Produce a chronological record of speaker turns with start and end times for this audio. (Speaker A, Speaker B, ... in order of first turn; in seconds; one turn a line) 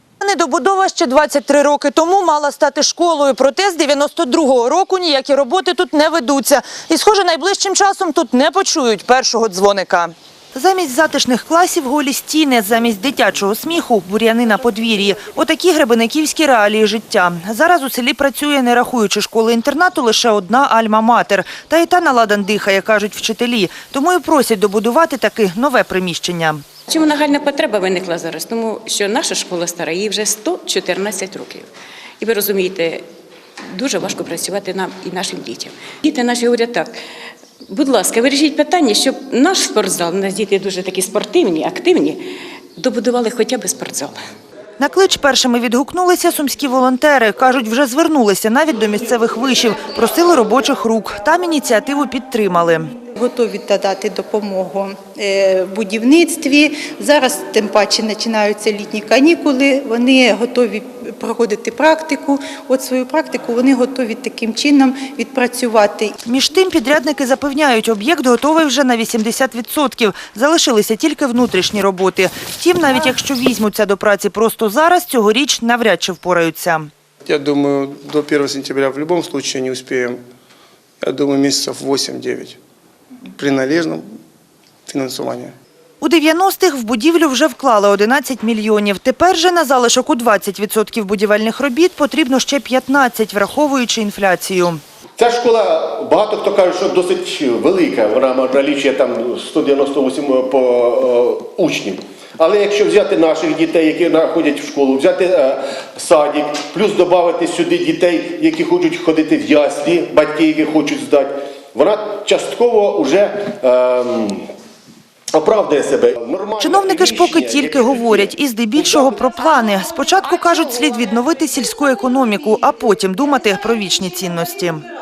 Speaker A: 0.2-26.6
Speaker B: 26.9-31.7
Speaker B: 32.2-33.0
Speaker B: 33.7-36.9
Speaker B: 37.7-42.2
Speaker B: 42.8-44.1
Speaker A: 44.8-52.9
Speaker C: 53.2-66.1
Speaker A: 66.2-76.9
Speaker D: 77.3-80.2
Speaker D: 81.0-82.6
Speaker D: 83.3-84.1
Speaker D: 84.9-85.5
Speaker A: 86.0-94.8
Speaker E: 95.2-114.4
Speaker E: 115.4-119.0
Speaker A: 116.6-124.8